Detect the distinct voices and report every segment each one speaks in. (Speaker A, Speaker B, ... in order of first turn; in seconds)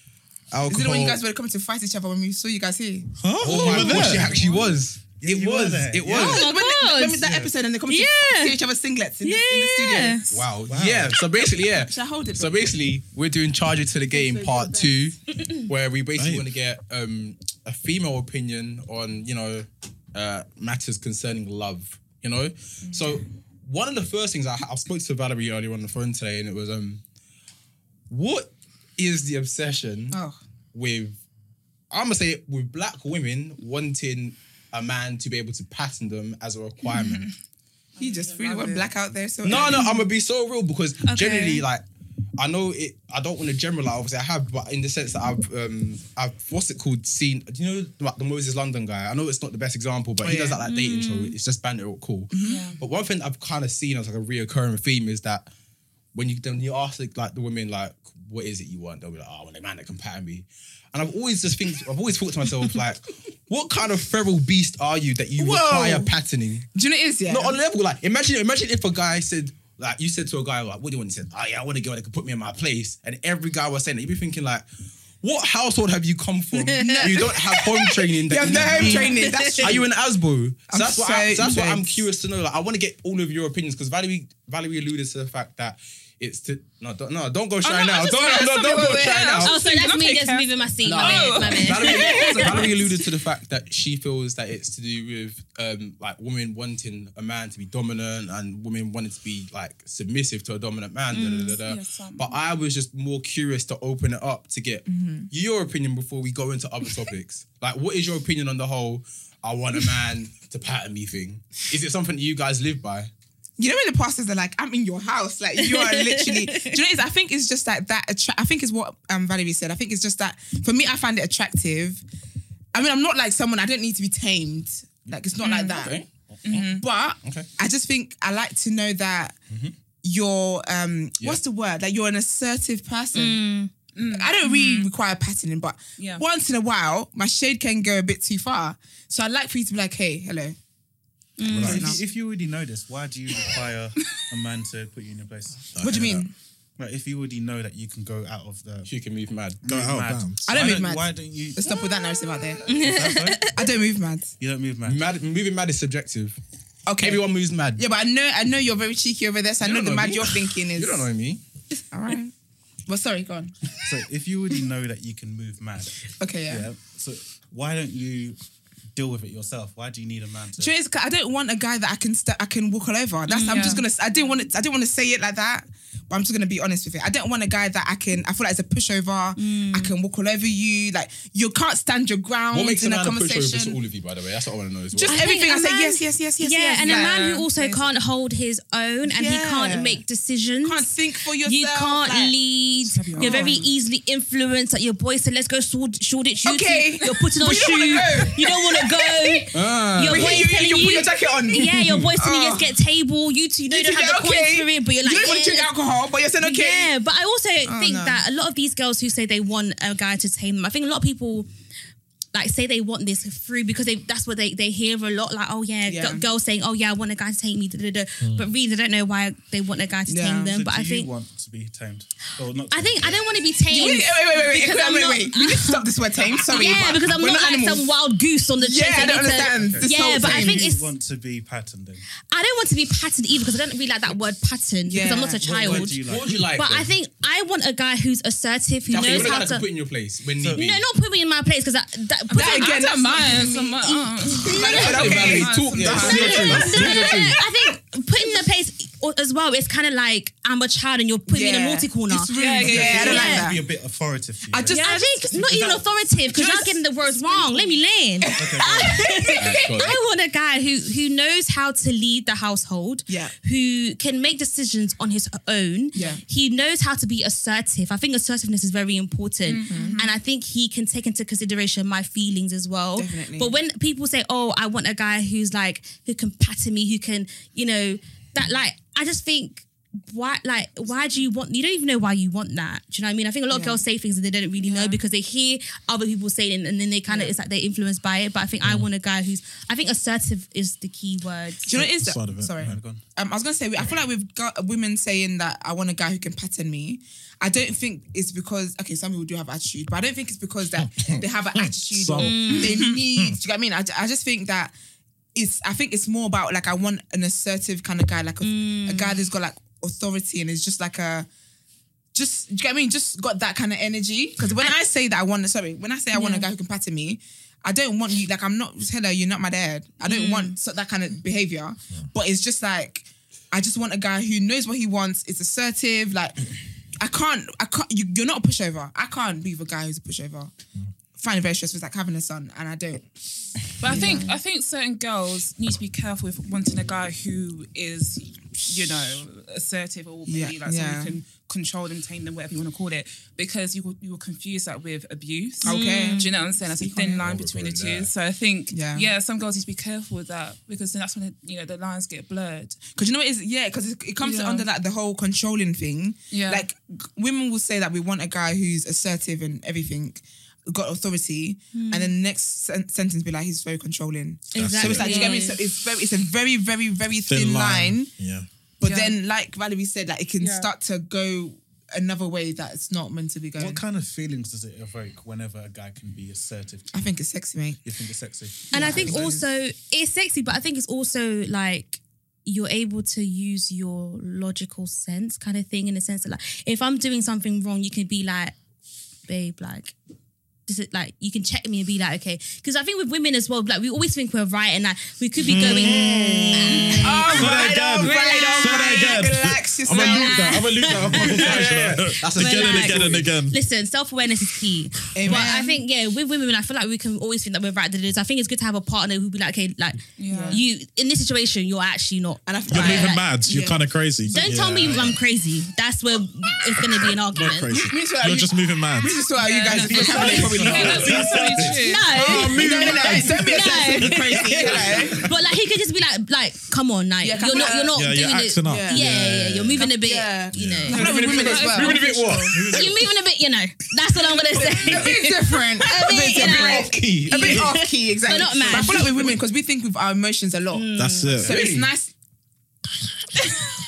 Speaker A: 0.5-1.2, 3.4-6.5, 10.3-27.0, 28.1-30.2, 30.7-31.2, 31.9-37.3, 39.4-41.8, 42.4-55.5, 56.1-66.7, 67.3-74.6, 75.2-89.5, 90.8-113.1, 125.7-126.1, 127.2-127.5, 148.8-149.6, 154.8-156.4, 157.0-157.8, 159.6-161.4, 182.5-185.2, 199.5-200.5, 201.8-202.1, 235.7-236.9, 238.9-240.7, 244.6-247.3, 259.4-260.0, 347.1-348.1, 400.8-403.3, 422.2-423.5, 430.9-432.6, 436.3-437.7, 441.4-441.9
Speaker B: 0.7-4.7, 6.1-10.4, 11.8-12.7, 14.1-15.1, 30.1-30.4, 38.0-39.9, 50.2-50.6, 52.3-52.6, 65.4-66.1, 66.7-67.5, 76.8-77.4, 78.2-79.9, 80.7-82.0, 88.0-89.4, 104.9-105.3, 113.6-122.0, 122.7-129.4, 130.0-133.4, 134.0-140.6, 141.6-142.0, 145.8-146.3, 150.5-152.7, 153.5-154.3, 156.9-157.2, 157.8-161.1, 161.9-162.3, 162.9-163.6, 166.2-166.7, 170.6-183.8, 184.9-187.2, 189.1-190.0, 190.6-192.4, 192.9-193.6, 196.4-199.4, 200.0-202.7, 203.7-206.9, 207.6-208.2, 215.8-216.2, 220.1-220.6, 223.7-227.9, 228.6-230.7, 234.9-235.4, 242.4-243.8, 244.3-247.0, 251.3-253.7, 254.5-255.3, 256.3-256.7, 258.2-259.9, 263.1-263.3, 265.9-266.2, 269.6-270.0, 272.9-273.6, 283.5-283.8, 287.1-287.3, 291.6-304.7, 305.3-311.3, 312.1-326.4, 327.0-330.5, 331.2-333.1, 333.8-334.3, 340.3-341.2, 345.6-347.2, 348.7-349.1, 352.9-368.1, 368.8-373.8, 376.9-377.8, 378.7-379.5, 396.9-400.6, 405.1-405.8, 410.3-410.6, 412.4-413.8, 417.7-421.4, 422.1-425.3, 427.2-427.9, 428.6-429.1, 429.8-432.1, 434.5-440.9, 441.4-442.1
Speaker C: 3.2-4.5, 16.1-16.5, 141.4-141.9, 145.8-146.2, 149.6-150.5, 245.9-247.0, 291.7-292.8, 301.6-303.4, 364.6-365.3, 367.3-368.4, 395.4-403.6, 412.7-415.2, 417.0-419.2, 421.1-421.6, 427.9-429.9, 430.5-431.0, 440.9-441.7
Speaker D: 4.0-4.3, 5.2-6.2, 7.2-7.5, 10.7-11.1, 141.5-146.2, 146.8-148.9, 149.6-151.7, 152.7-153.4, 154.4-155.1, 163.8-168.4, 168.9-170.7, 220.4-223.3, 229.5-232.1, 235.4-236.5, 240.4-240.8, 252.6-254.8, 255.3-255.8, 258.4-258.9, 292.6-293.0, 373.6-376.9, 377.8-379.3, 419.7-421.8, 432.5-433.1
Speaker E: 6.1-7.3, 7.9-8.6, 9.2-10.4, 41.0-41.6, 50.6-51.3, 76.6-77.9, 78.5-79.8, 89.4-92.7, 101.1-101.6, 115.6-116.8, 133.1-133.7, 141.4-142.0, 152.6-153.7, 173.3-173.8, 179.4-179.9, 185.1-190.9, 191.4-205.7, 206.4-211.5, 212.3-221.1, 222.7-230.9, 232.3-239.7, 240.6-242.8, 243.8-253.5, 254.7-291.7, 302.2-302.8, 308.4-309.2, 316.1-316.5, 320.0-320.5, 345.6-346.3, 361.7-362.1, 364.5-365.6, 378.7-388.5, 389.3-389.9, 390.7-399.2, 399.9-401.6, 402.4-413.2, 414.3-417.8, 421.7-431.1, 432.7-439.3, 440.7-441.4
Speaker F: 36.9-37.3, 38.0-38.9, 52.5-52.8, 87.7-93.0, 101.6-102.3, 126.4-126.8, 133.9-134.9, 136.0-136.2, 173.4-173.8, 186.8-187.9, 192.9-193.7, 242.3-247.1, 252.3-253.3, 254.7-255.1, 256.4-257.7, 269.6-270.1, 284.6-285.0, 333.8-352.8, 354.2-354.6, 356.3-356.6, 365.1-365.4, 368.8-369.2, 370.4-370.7, 398.1-398.6, 410.2-410.6, 419.3-422.2, 431.0-432.7